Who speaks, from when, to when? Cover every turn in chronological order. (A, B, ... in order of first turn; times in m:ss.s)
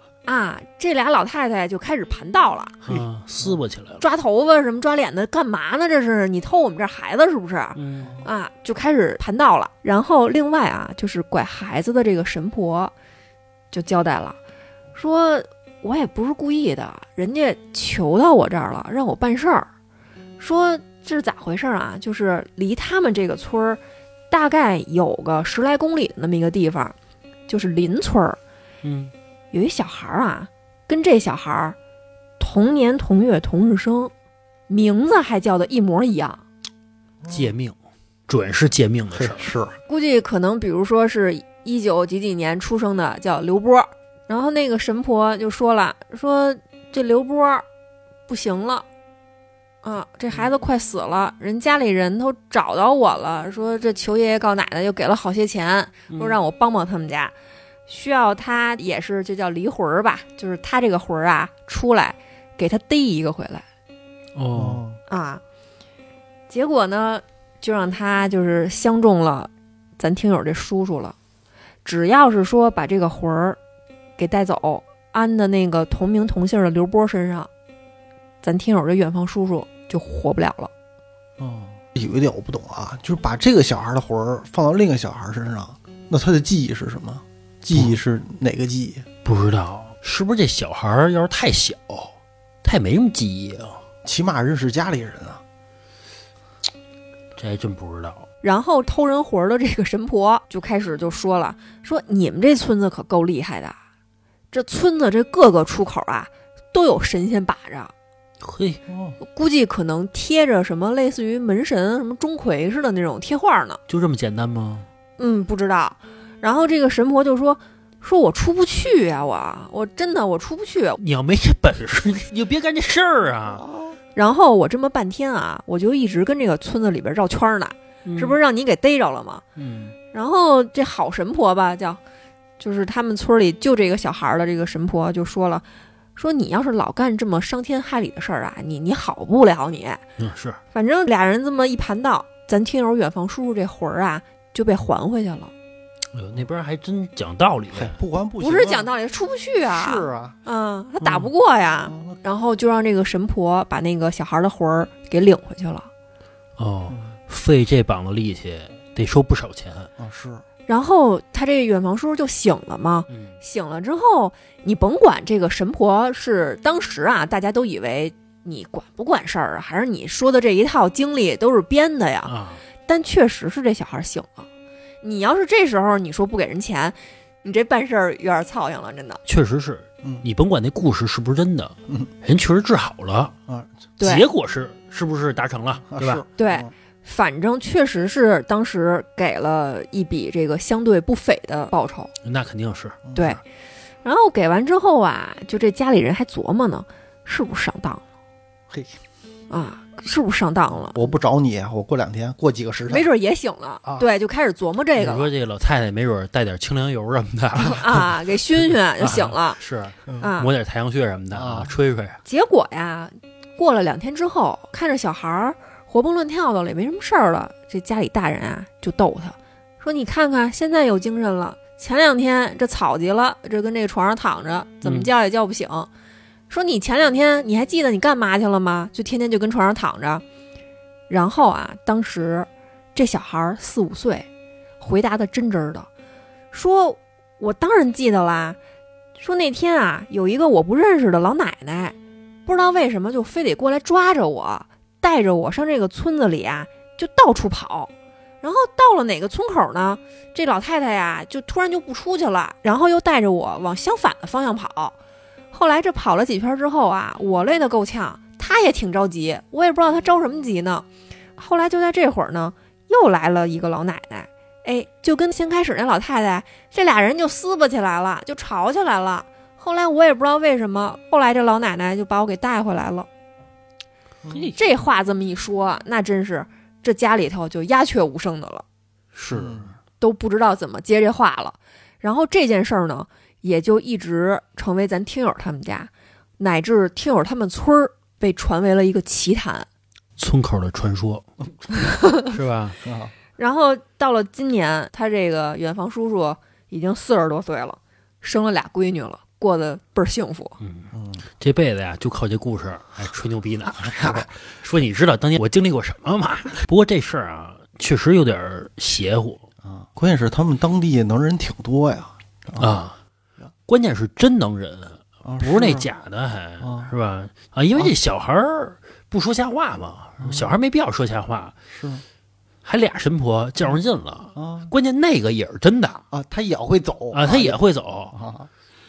0:00.3-0:02.8 A
0:02.8-0:04.0 B
0:02.9-0:03.6 C
0:04.0-0:12.9 A
0:07.8-0:08.2 B
0:13.7-0:14.4 A
0:15.0-0:19.7 A
0:20.4-0:27.0 A
0:27.5-0:28.4 A
0:28.8-0:29.1 B
0:29.5-0:31.8 A
0:32.4-0:34.1 A
0:34.7-0:36.4 A
0:37.2-0:37.5 C
0:37.3-0:37.8 B
0:38.3-0:39.5 B
0:39.1-0:39.8 C
0:39.9-0:47.6 A
0:48.3-0:48.9 A
0:49.8-0:57.3 A
0:56.1-0:56.4 B
0:57.9-1:03.6 A
1:04.4-1:04.8 B
1:04.5-1:05.0 C
1:05.1-1:05.4 A
1:06.5-1:11.2 A
1:11.8-1:13.6 A
1:14.2-1:17.5 A
1:18.4-1:20.7 A
1:21.4-1:29.1 C
1:29.2-1:33.8 B
1:34.0-1:35.4 C
1:37.4-1:38.3 B
1:38.4-1:43.8 A
1:44.5-1:47.9 A
1:48.4-1:48.8 B
1:48.9-1:49.2 C
1:49.2-1:53.8 A
1:53.9-1:54.9 B
1:55.2-2:01.0 A
2:01.0-2:03.6 B
2:03.5-2:04.0 C
2:04.2-2:09.4 A
2:08.0-2:08.4 B
2:09.6-2:10.0 B
2:10.1-2:12.0 A
2:12.6-2:15.6 A
2:16.2-2:20.0 A
2:20.2-2:20.6 B
2:20.7-2:25.5 A
2:26.1-2:28.0 B
2:27.7-2:28.9 C
2:28.4-2:35.9 A
2:29.7-2:30.4 C
2:31.9-2:32.2 C
2:36.6-2:39.9 B
2:40.0-2:40.4 C
2:40.7-2:52.3 A
2:43.1-2:43.4 B
2:52.2-2:52.6 B
2:52.9-2:54.5 A
2:55.0-2:59.2 A
2:59.3-3:03.3 B
3:03.5-3:03.7 C
3:04.0-3:04.3 A
3:04.0-3:06.2 B
3:05.9-3:06.7 C
3:06.4-3:12.1 A
3:12.2-3:13.1 B
3:13.1-3:13.4 C
3:13.2-3:13.4 A
3:14.0-3:18.0 A
3:18.7-3:19.0 C
3:19.5-3:21.0 A
3:20.9-3:23.1 C
3:22.9-3:25.3 A
3:25.0-3:28.1 B
3:27.6-3:29.6 A
3:29.0-3:32.2 B
3:30.2-3:30.5 A
3:31.3-3:31.7 C
3:32.2-3:45.9 A
3:44.8-3:45.1 B
3:46.5-3:50.2 A
3:51.1-3:54.3 A
3:54.8-3:55.9 A
3:56.5-3:58.6 A
3:59.2-4:07.9 A
4:08.4-4:15.0 A
4:15.5-4:20.9 A
4:21.4-4:33.1 A
4:34.3-4:34.6 B
4:34.5-4:38.6 A
4:39.2-4:39.7 B
4:39.3-4:39.7 C
4:40.0-4:49.7 A
4:50.2-4:51.3 B
4:52.2-4:52.8 B
4:52.8-4:53.1 C
4:53.4-5:00.6 A
5:00.6-5:09.4 B
5:00.9-5:01.2 C
5:03.8-5:04.3 C
5:09.6-5:12.7 C
5:12.6-5:13.0 B
5:13.7-5:21.6 B
5:15.2-5:15.9 C
5:16.6-5:16.9 C
5:20.2-5:20.5 C
5:21.7-5:22.0 C
5:22.6-5:26.0 B
5:24.4-5:24.7 C
5:26.1-5:28.5 C
5:27.1-5:28.1 B